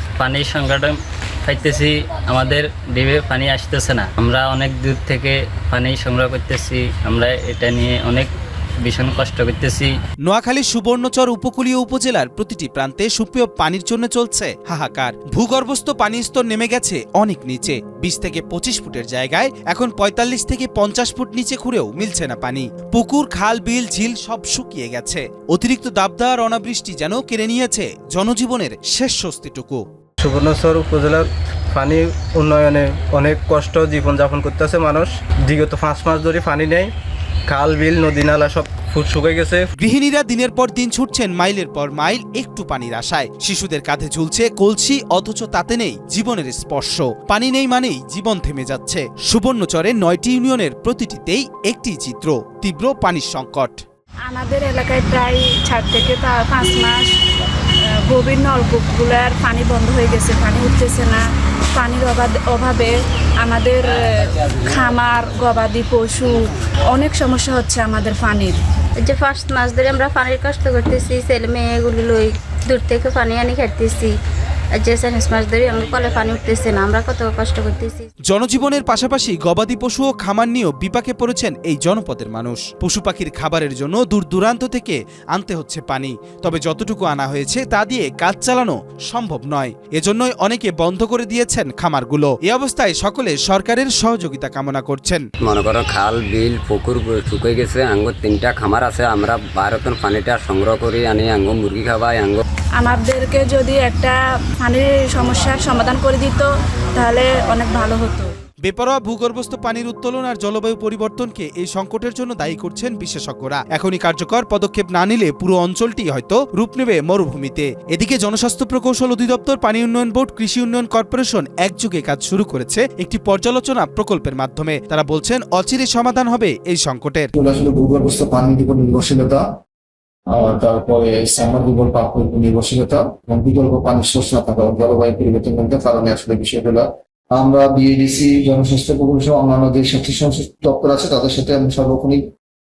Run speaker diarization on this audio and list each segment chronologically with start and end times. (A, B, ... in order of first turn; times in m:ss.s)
0:00.2-0:08.3 A
0:08.8-0:09.9 A
0:10.2-0:29.8 B
0:30.2-0:36.9 C
0:37.5-0:39.7 C
0:39.8-0:53.8 B
0:54.3-0:57.1 D
0:58.0-1:01.2 D
1:01.8-1:06.4 D
1:06.9-1:08.6 D
1:09.0-1:14.1 E
1:14.7-1:18.1 E
1:18.3-1:35.2 B
1:35.4-1:42.4 F
1:42.8-1:48.3 D
1:48.6-2:07.3 B
2:07.3-2:09.4 G
2:10.3-2:22.2 G